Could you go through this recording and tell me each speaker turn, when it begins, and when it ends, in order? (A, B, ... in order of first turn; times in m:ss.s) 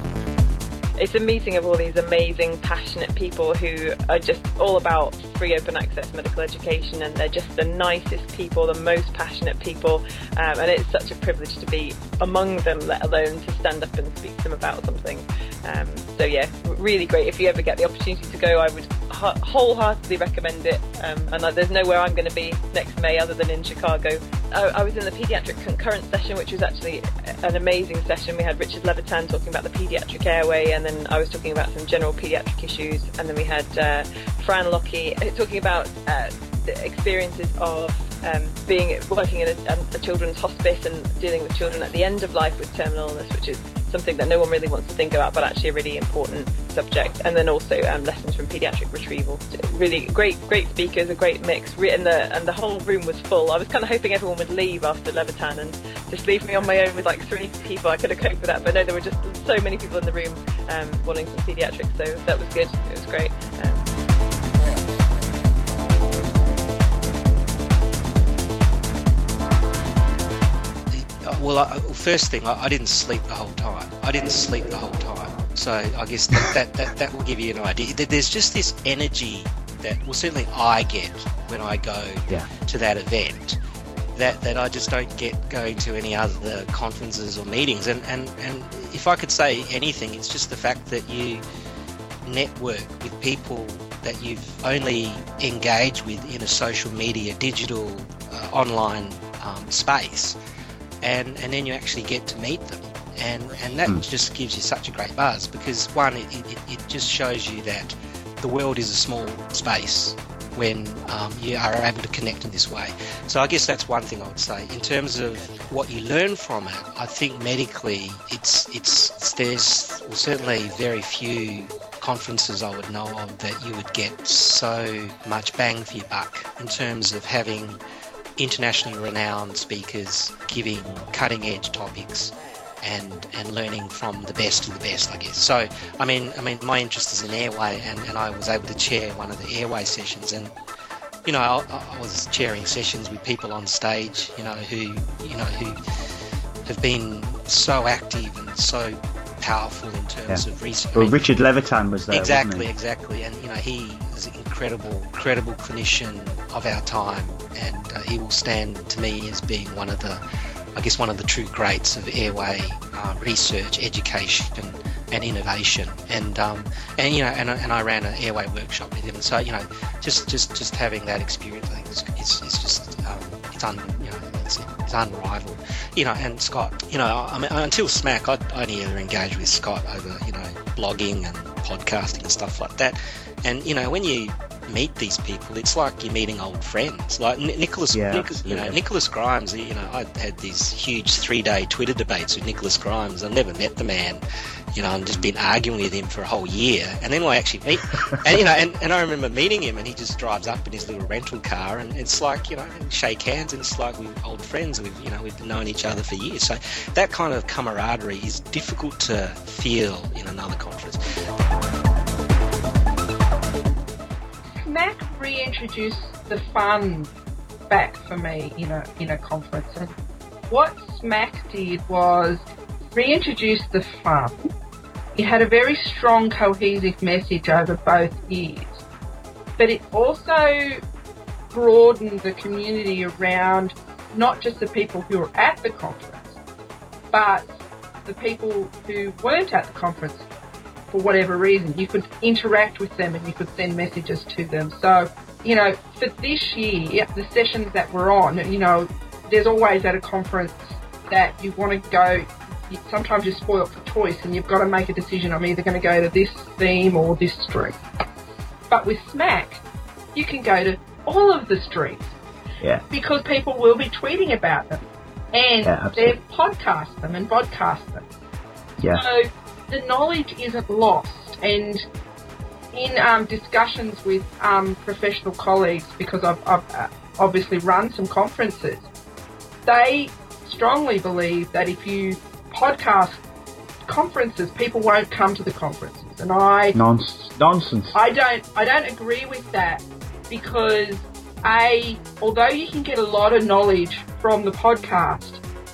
0:01.0-1:03.9 A
1:10.9-1:23.6 B
1:24.2-1:31.4 B
1:32.3-1:40.4 B
1:41.0-2:07.8 B
2:08.4-2:20.5 B
2:21.2-2:25.8 B
2:26.6-2:31.2 B
2:30.9-2:32.7 C
2:32.1-2:40.2 B
2:40.8-3:14.2 B
3:07.9-3:08.8 C
3:14.7-3:31.0 B
3:34.6-3:37.1 D
3:37.7-3:40.0 D
3:40.5-3:44.5 D
3:45.2-3:48.8 D
3:49.6-3:50.8 D
3:51.5-3:56.4 D
3:57.1-4:00.3 D
4:00.9-4:17.8 D
4:18.7-4:19.6 D
4:20.2-4:22.2 D
4:22.9-4:28.1 D
4:25.6-4:26.2 C
4:28.9-4:31.9 D
4:32.7-4:38.9 D
4:39.7-4:43.2 D
4:43.9-4:46.8 D
4:46.8-4:48.0 C
4:47.9-4:55.4 D